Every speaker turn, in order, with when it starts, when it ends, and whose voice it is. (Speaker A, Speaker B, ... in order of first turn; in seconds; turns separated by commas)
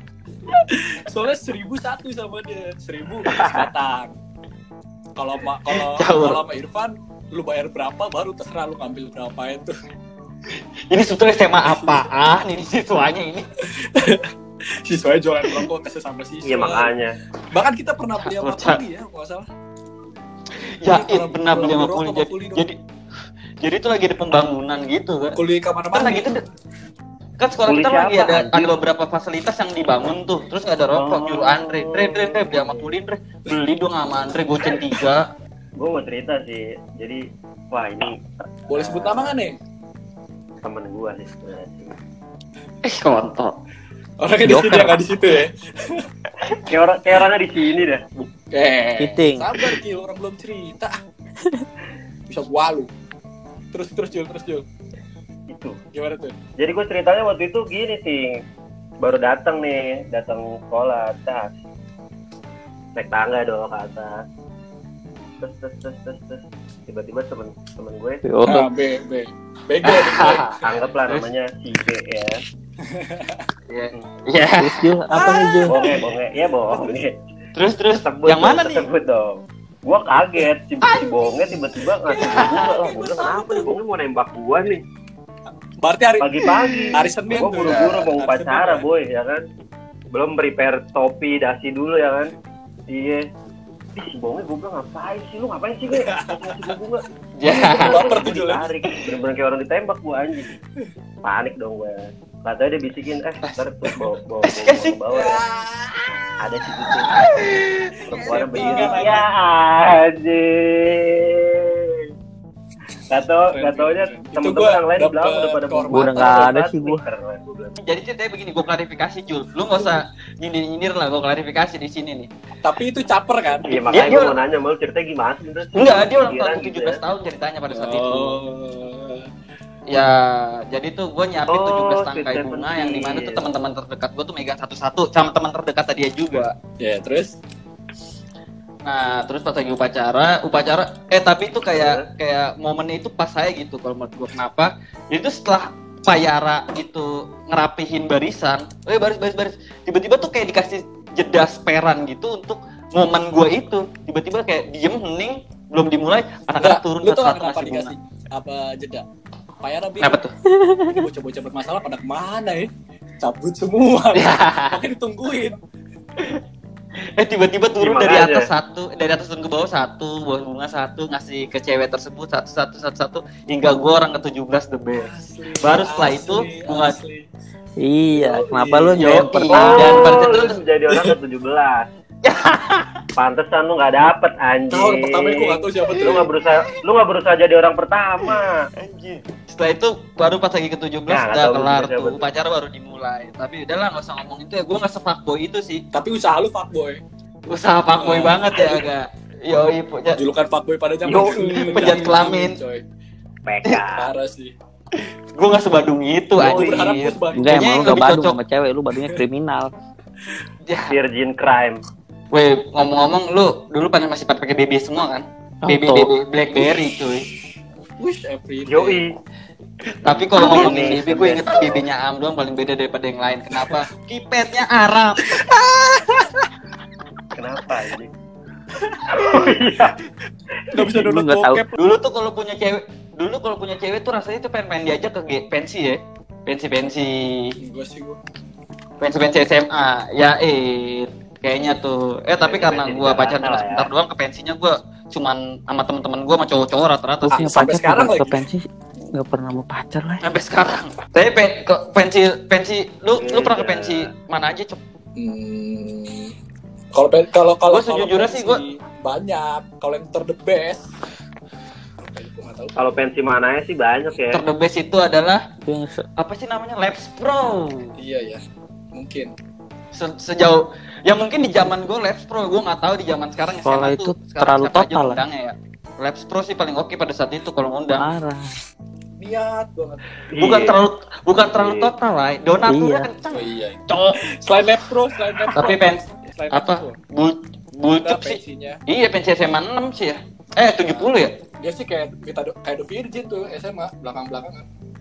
Speaker A: 0.5-4.2, Speaker B: 3.3-3.7, Speaker A: 5.2-9.8, Speaker C: 5.7-6.4, Speaker C: 10.9-13.4, Speaker A: 11.6-12.0, Speaker A: 13.6-14.3, Speaker A: 14.8-17.0, Speaker B: 16.4-17.2, Speaker A: 17.5-19.5, Speaker C: 18.2-18.8, Speaker C: 20.8-22.7, Speaker A: 20.8-22.7, Speaker C: 23.6-25.4, Speaker A: 25.3-26.3, Speaker C: 25.9-26.4, Speaker C: 27.4-35.2, Speaker B: 27.6-28.7, Speaker B: 30.9-32.9, Speaker B: 35.8-39.4, Speaker A: 38.7-39.6, Speaker B: 40.6-41.9, Speaker C: 42.8-43.5, Speaker A: 44.2-46.1, Speaker D: 44.4-45.0, Speaker B: 46.6-48.0, Speaker A: 48.2-51.0, Speaker D: 49.0-49.5, Speaker A: 52.3-52.9, Speaker A: 53.7-54.6, Speaker B: 55.5-55.8, Speaker A: 55.9-56.3, Speaker B: 56.6-58.3, Speaker B: 59.0-61.5, Speaker B: 62.9-64.2, Speaker B: 65.4-68.2, Speaker D: 68.2-68.7, Speaker A: 68.4-71.3, Speaker C: 69.8-70.6, Speaker B: 70.6-72.4, Speaker A: 72.8-73.5, Speaker C: 73.7-75.0, Speaker D: 74.6-75.9, Speaker A: 75.1-76.9, Speaker B: 75.7-77.2, Speaker C: 77.5-78.9, Speaker B: 77.9-84.8, Speaker C: 80.8-81.1, Speaker A: 81.9-83.8, Speaker C: 82.2-82.7, Speaker A: 85.8-88.9, Speaker B: 86.2-89.5, Speaker B: 90.1-92.3, Speaker B: 92.9-93.2, Speaker B: 94.0-100.5, Speaker A: 95.9-96.7, Speaker C: 97.4-98.1, Speaker A: 97.8-98.7, Speaker B: 101.2-105.4, Speaker C: 104.4-105.0, Speaker A: 105.1-109.3, Speaker B: 106.4-107.1, Speaker C: 106.9-109.2, Speaker B: 108.1-112.0, Speaker B: 113.1-117.8, Speaker A: 113.5-116.2, Speaker D: 115.9-117.0, Speaker C: 117.8-122.3, Speaker A: 122.6-123.8, Speaker B: 123.6-127.0, Speaker C: 123.9-124.4, Speaker C: 125.7-128.4, Speaker A: 127.7-129.3, Speaker C: 129.9-136.5, Speaker B: 131.5-133.4, Speaker A: 136.8-137.3, Speaker C: 138.8-157.9, Speaker B: 141.6-142.1, Speaker A: 156.6-159.0, Speaker A: 159.6-160.2, Speaker C: 160.0-160.3, Speaker A: 160.8-165.6, Speaker C: 164.1-164.8, Speaker C: 167.2-177.0, Speaker B: 167.8-168.5, Speaker A: 174.9-177.3, Speaker D: 177.8-179.8, Speaker A: 178.1-179.8, Speaker C: 178.9-180.6, Speaker B: 179.0-181.9, Speaker C: 182.2-183.0, Speaker B: 183.2-188.6, Speaker A: 184.7-186.3, Speaker C: 185.9-186.2, Speaker C: 188.3-195.8, Speaker B: 191.1-192.3, Speaker A: 195.9-197.0, Speaker C: 197.5-200.2, Speaker A: 197.9-198.9, Speaker A: 200.1-202.8, Speaker B: 201.0-202.0, Speaker C: 201.4-202.6, Speaker B: 203.4-204.1, Speaker A: 203.9-204.5, Speaker C: 205.3-208.4, Speaker A: 206.4-207.9, Speaker D: 207.3-209.7, Speaker C: 210.6-210.9, Speaker B: 210.9-211.8, Speaker C: 212.3-217.2, Speaker D: 215.6-216.1, Speaker A: 216.6-216.8, Speaker A: 218.0-219.0, Speaker B: 218.7-219.2, Speaker C: 220.0-225.3, Speaker B: 220.1-221.9, Speaker A: 220.3-221.7, Speaker A: 225.3-226.5, Speaker B: 227.3-228.1, Speaker A: 228.8-229.5, Speaker B: 229.1-230.0, Speaker B: 230.7-231.2, Speaker A: 230.7-231.7, Speaker D: 231.1-231.6, Speaker C: 231.7-237.5, Speaker A: 237.6-238.2, Speaker C: 239.0-247.5, Speaker B: 242.4-243.9, Speaker A: 247.3-248.4, Speaker D: 247.3-250.2, Speaker C: 250.2-254.8, Speaker B: 253.1-254.1, Speaker A: 255.2-256.3, Speaker A: 256.9-260.9, Speaker C: 257.7-258.6, Speaker A: 262.0-262.8, Speaker B: 262.8-264.4, Speaker C: 264.3-265.4, Speaker D: 265.6-266.0, Speaker C: 266.2-267.9, Speaker A: 268.0-268.4, Speaker A: 268.9-269.3, Speaker C: 269.9-278.1, Speaker D: 273.6-275.2, Speaker D: 278.0-278.5, Speaker A: 279.2-280.1, Speaker B: 280.3-280.8, Speaker C: 280.4-284.2, Speaker B: 281.5-281.9, Speaker D: 282.7-283.1, Speaker A: 283.3-287.0, Speaker C: 285.5-291.3, Speaker A: 288.0-288.8, Speaker A: 290.9-294.6